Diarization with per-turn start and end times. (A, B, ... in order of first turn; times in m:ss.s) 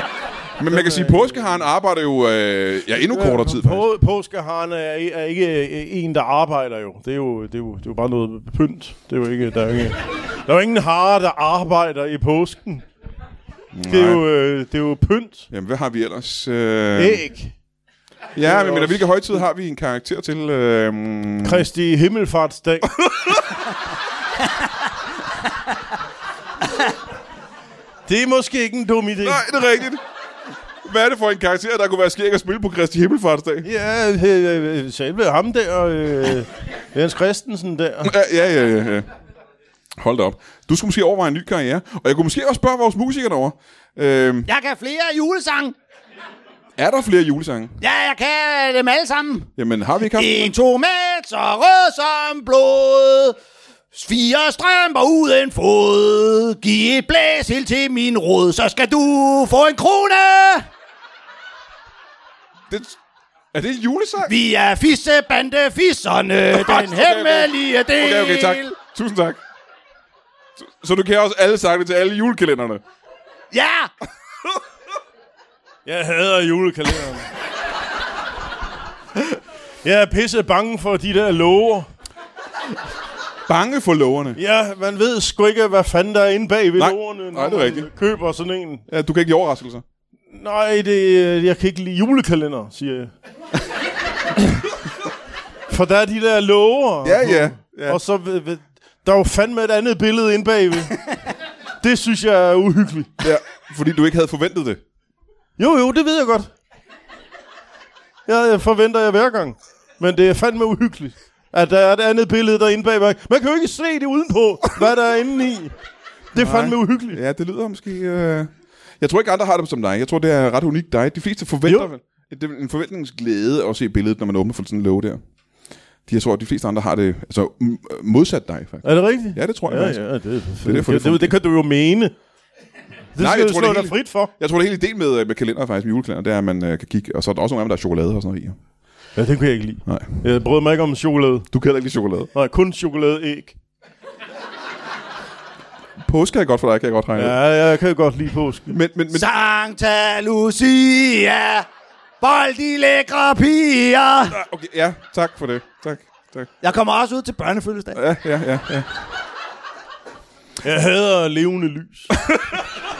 0:00.6-0:03.8 A
0:00.7-0:01.6 B
0:03.0-0:12.8 B
0:13.7-0:14.2 A
0:13.9-0:15.5 B
0:15.5-0:17.2 A
0:16.9-0:17.5 B
0:18.3-0:21.6 A
0:18.4-0:19.1 B
0:21.4-0:23.0 B
0:23.0-0:23.4 A
0:28.1-0:29.4 B
0:29.2-0:30.0 A
0:30.8-0:33.7 A
0:33.6-0:38.1 B
0:38.0-0:39.1 A
0:40.0-0:44.5 A
0:44.5-0:45.7 C
0:46.8-0:47.8 A
0:47.8-0:49.5 C
0:49.6-0:50.5 A
0:50.1-0:53.4 C
0:53.9-1:00.7 C
1:02.7-1:03.0 A
1:03.5-1:04.3 A
1:04.3-1:08.7 C
1:06.5-1:09.4 A
1:10.6-1:12.8 A
1:13.5-1:13.9 C
1:15.8-1:17.3 B
1:19.8-1:21.9 B
1:23.5-1:24.4 A
1:24.4-1:28.8 B
1:26.8-1:27.9 A
1:28.9-1:29.8 A
1:30.3-1:33.1 B
1:35.7-1:41.1 B
1:37.0-1:38.0 A
1:41.8-1:43.1 B
1:43.2-1:44.8 A
1:45.6-1:46.5 B
1:48.3-1:55.7 B
1:56.3-1:57.2 B
1:56.3-2:05.2 A
2:06.1-2:10.0 A
2:08.8-2:12.1 B
2:10.6-2:11.3 A
2:13.1-2:14.3 B
2:13.2-2:18.6 A
2:19.2-2:21.5 B
2:19.8-2:20.2 A
2:21.5-2:22.3 A
2:22.3-2:23.6 B
2:26.0-2:27.4 A
2:27.2-2:28.8 B
2:28.7-2:29.3 A
2:29.1-2:31.7 C
2:32.2-2:34.4 C
2:34.3-2:36.5 A
2:36.6-2:38.0 C
2:37.9-2:38.9 A
2:40.6-2:42.1 B